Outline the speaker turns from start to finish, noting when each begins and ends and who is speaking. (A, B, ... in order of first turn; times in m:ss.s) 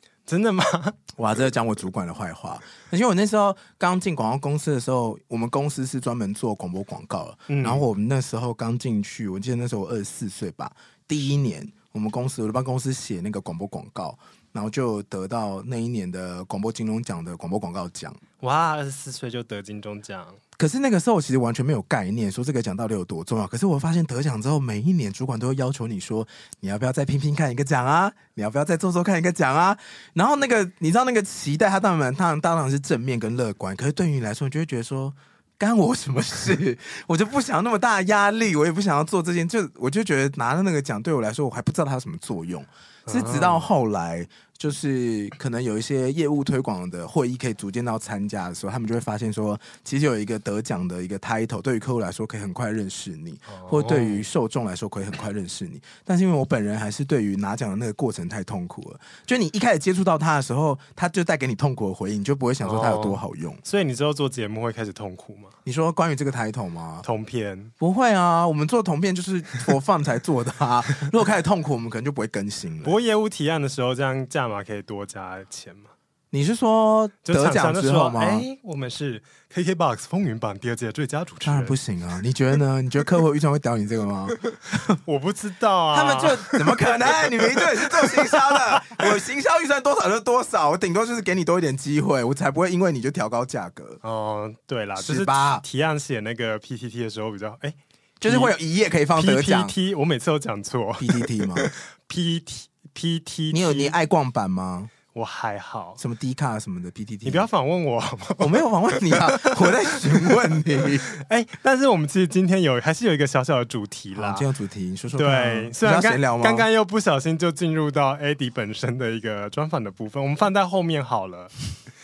0:00.3-0:01.0 A
0:01.2-0:18.2 B
0:07.5-0:07.8 A
0:18.4-0:20.4 A
0:20.6-1:03.6 B
0:43.1-0:43.7 A
0:53.5-0:54.3 A
1:02.6-1:05.6 A
1:05.6-1:07.1 B
1:07.0-1:07.7 A
1:07.8-1:13.0 B
1:12.8-1:15.9 A
1:16.3-1:18.4 B
1:17.2-1:21.8 A
1:21.4-1:25.0 B
1:25.0-1:29.0 A
1:25.9-1:34.0 B
1:34.0-1:38.5 A
1:35.0-1:35.6 B
1:38.2-1:39.8 B
1:39.2-1:44.0 A
1:41.0-1:41.7 B
1:43.5-1:44.9 B
1:45.1-1:46.0 A
1:46.0-1:47.5 B
1:47.2-1:50.6 A
1:48.4-1:51.1 B
1:51.1-1:54.5 A
1:54.2-1:56.7 B
1:55.2-2:01.5 A